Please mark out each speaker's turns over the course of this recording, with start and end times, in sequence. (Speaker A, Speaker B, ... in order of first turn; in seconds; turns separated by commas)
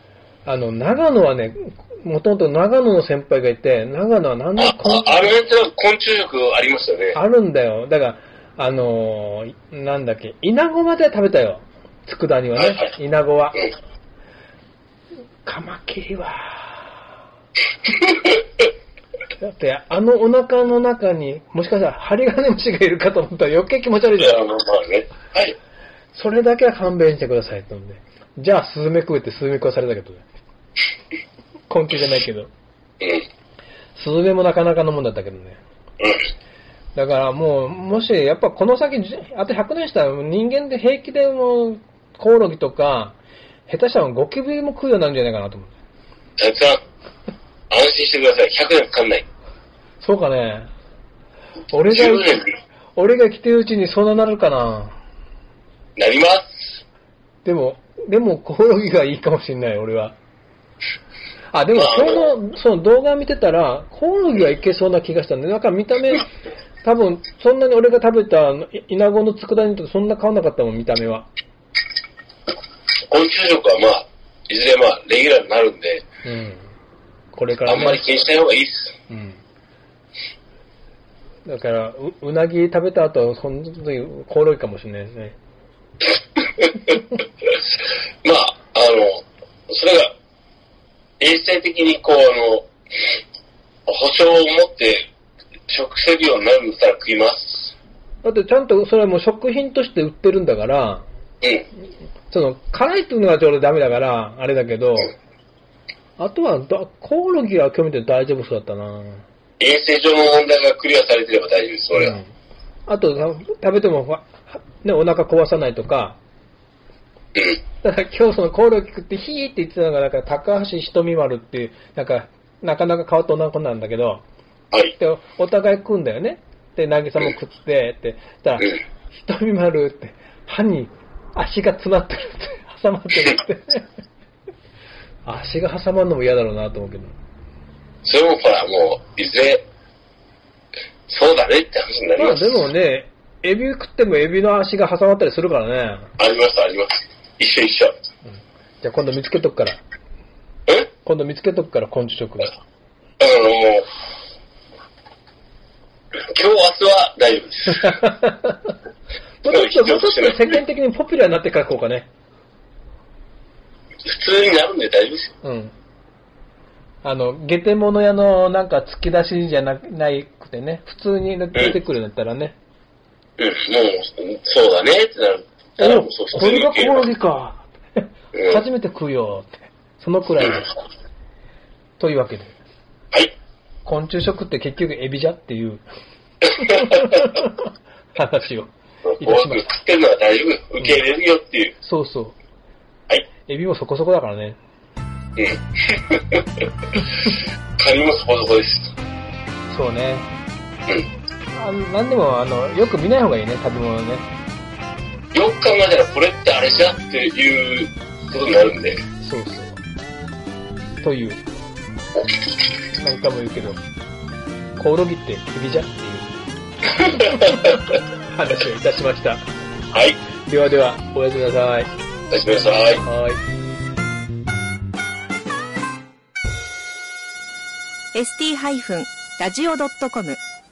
Speaker A: 0.5-5.3, Speaker B: 4.6-7.2, Speaker A: 7.1-13.7, Speaker B: 12.6-12.9, Speaker A: 15.4-16.9, Speaker A: 19.4-24.4, Speaker B: 24.2-25.6, Speaker A: 26.1-30.2, Speaker A: 31.7-32.5, Speaker B: 33.0-33.3, Speaker A: 34.0-35.6, Speaker B: 36.0-36.3, Speaker A: 37.0-45.7, Speaker B: 46.4-46.8, Speaker B: 47.7-49.3, Speaker A: 50.0-50.7, Speaker A: 51.7-52.3, Speaker B: 51.9-52.5, Speaker A: 53.0-55.0, Speaker B: 56.0-56.8, Speaker A: 57.5-60.2, Speaker A: 61.5-66.3, Speaker B: 61.7-62.3, Speaker A: 66.8-71.3, Speaker B: 73.1-76.1, Speaker A: 76.2-76.7, Speaker A: 77.3-78.1, Speaker B: 77.7-79.0, Speaker A: 79.1-79.4, Speaker A: 81.5-85.4, Speaker B: 86.6-86.9, Speaker B: 88.2-90.1, Speaker B: 91.2-93.1, Speaker B: 93.9-95.1, Speaker B: 95.7-97.8, Speaker A: 98.2-101.1, Speaker A: 102.3-105.1, Speaker A: 106.2-109.2, Speaker B: 109.6-112.2, Speaker A: 112.0-112.3, Speaker A: 112.9-116.2, Speaker B: 117.3-117.6, Speaker A: 117.8-124.2, Speaker A: 124.9-133.9, Speaker A: 135.2-137.2, Speaker B: 138.0-139.7, Speaker B: 141.1-142.6, Speaker A: 142.2-146.1, Speaker B: 146.2-147.9, Speaker A: 148.8-149.8, Speaker A: 151.0-152.5, Speaker B: 153.2-153.9, Speaker B: 156.3-158.0, Speaker A: 157.8-158.7, Speaker A: 159.4-162.1, Speaker B: 159.4-160.4, Speaker B: 164.1-165.3, Speaker A: 165.4-165.7, Speaker A: 167.0-172.6, Speaker B: 173.4-177.1, Speaker A: 175.8-180.7, Speaker B: 178.3-178.6, Speaker A: 182.0-182.6, Speaker A: 183.8-185.8, Speaker A: 186.5-187.6, Speaker A: 188.2-189.7, Speaker B: 189.1-191.7, Speaker A: 191.8-192.4, Speaker A: 193.5-194.6, Speaker B: 195.4-196.7, Speaker B: 197.8-198.9, Speaker A: 199.7-200.3, Speaker A: 201.5-204.3, Speaker B: 205.3-209.0, Speaker A: 209.2-209.8, Speaker A: 211.0-211.4, Speaker A: 212.9-213.8, Speaker A: 214.8-216.3, Speaker A: 217.0-219.4, Speaker B: 219.9-220.2, Speaker A: 220.5-221.9, Speaker B: 222.3-223.0, Speaker A: 223.0-223.4, Speaker C: 228.1-230.4